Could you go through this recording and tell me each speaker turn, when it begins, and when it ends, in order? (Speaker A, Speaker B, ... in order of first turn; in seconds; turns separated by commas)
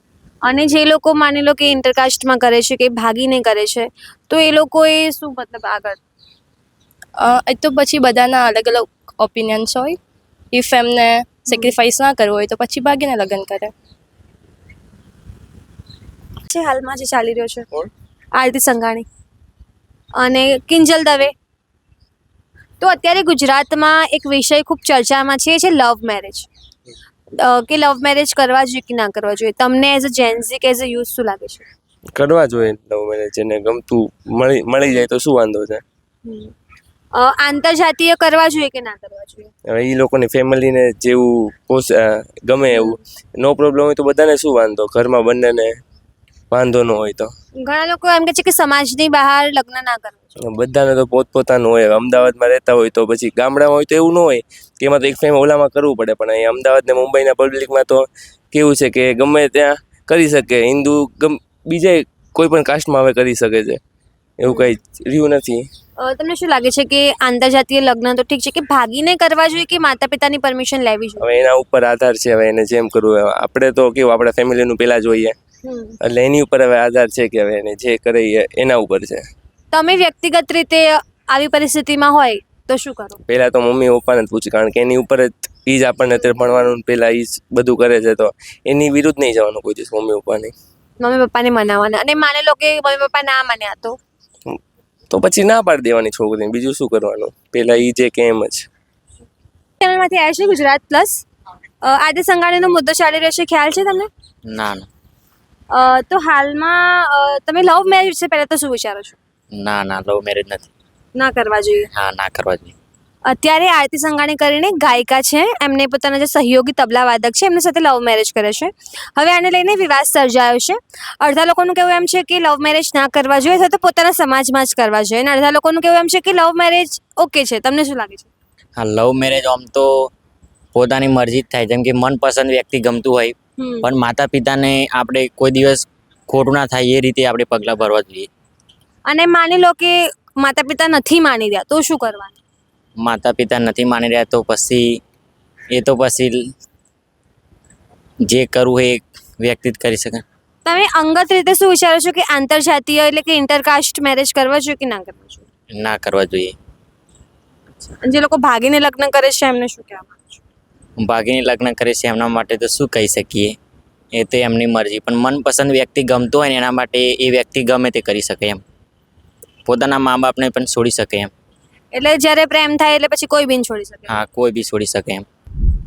Speaker A: 0.4-6.0, Speaker B: 7.2-10.0, Speaker B: 10.5-13.7, Speaker A: 16.5-17.7, Speaker A: 18.3-19.1, Speaker A: 20.1-21.3, Speaker A: 22.8-26.5, Speaker A: 27.3-31.6, Speaker C: 32.2-35.8, Speaker A: 36.2-36.5, Speaker A: 37.1-39.5, Speaker C: 39.7-45.8, Speaker C: 46.5-47.3, Speaker A: 47.6-50.3, Speaker C: 50.5-63.8, Speaker C: 64.4-65.7, Speaker A: 64.5-64.7, Speaker A: 66.0-71.3, Speaker C: 71.2-75.3, Speaker A: 75.6-76.0, Speaker C: 76.0-79.2, Speaker A: 79.7-83.2, Speaker C: 83.3-90.5, Speaker A: 91.0-94.0, Speaker C: 95.1-98.7, Speaker A: 99.8-101.2, Speaker A: 101.8-104.1, Speaker D: 104.5-104.9, Speaker A: 105.7-109.2, Speaker D: 109.5-110.7, Speaker A: 111.2-111.9, Speaker D: 111.9-112.7, Speaker A: 113.2-128.3, Speaker D: 128.8-130.1, Speaker D: 130.7-138.3, Speaker A: 133.6-133.8, Speaker A: 139.1-142.3, Speaker D: 143.0-145.0, Speaker D: 145.7-146.4, Speaker D: 148.3-150.2, Speaker A: 150.6-155.4, Speaker D: 155.8-156.5, Speaker A: 157.8-160.4, Speaker D: 161.0-163.6, Speaker D: 164.1-168.6, Speaker D: 169.7-171.3, Speaker A: 171.9-174.1, Speaker D: 174.1-175.2